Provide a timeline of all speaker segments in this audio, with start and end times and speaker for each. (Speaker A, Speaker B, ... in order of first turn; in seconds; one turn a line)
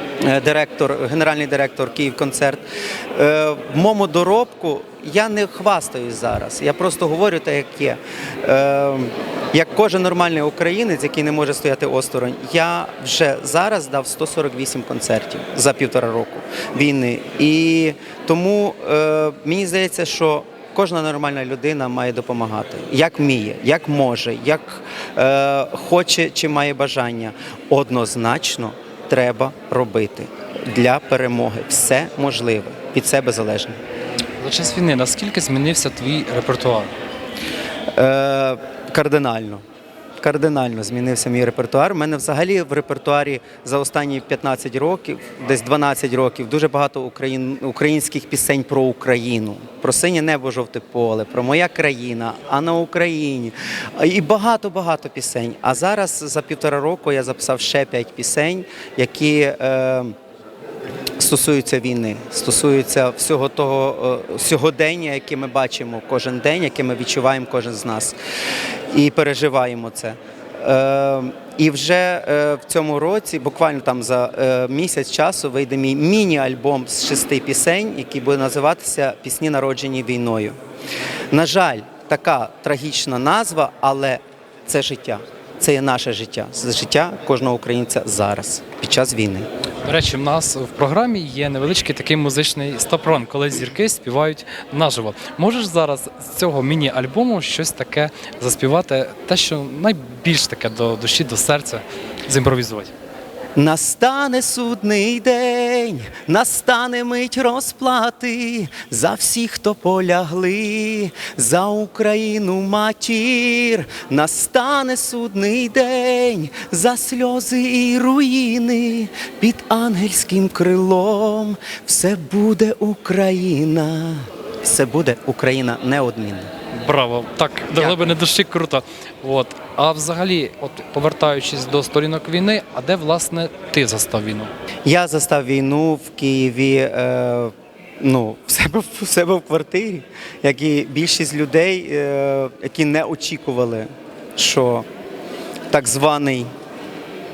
Speaker A: 0.2-33.8
Speaker B: 34.4-36.9
Speaker A: 37.9-39.6
Speaker A: 40.2-60.2
Speaker A: 61.2-68.2
Speaker A: 68.9-80.6
Speaker A: 81.3-89.5
Speaker B: 89.8-102.9
Speaker A: 103.6-126.5
Speaker B: 126.7-134.5
Speaker A: 134.8-144.9
Speaker A: 145.7-146.5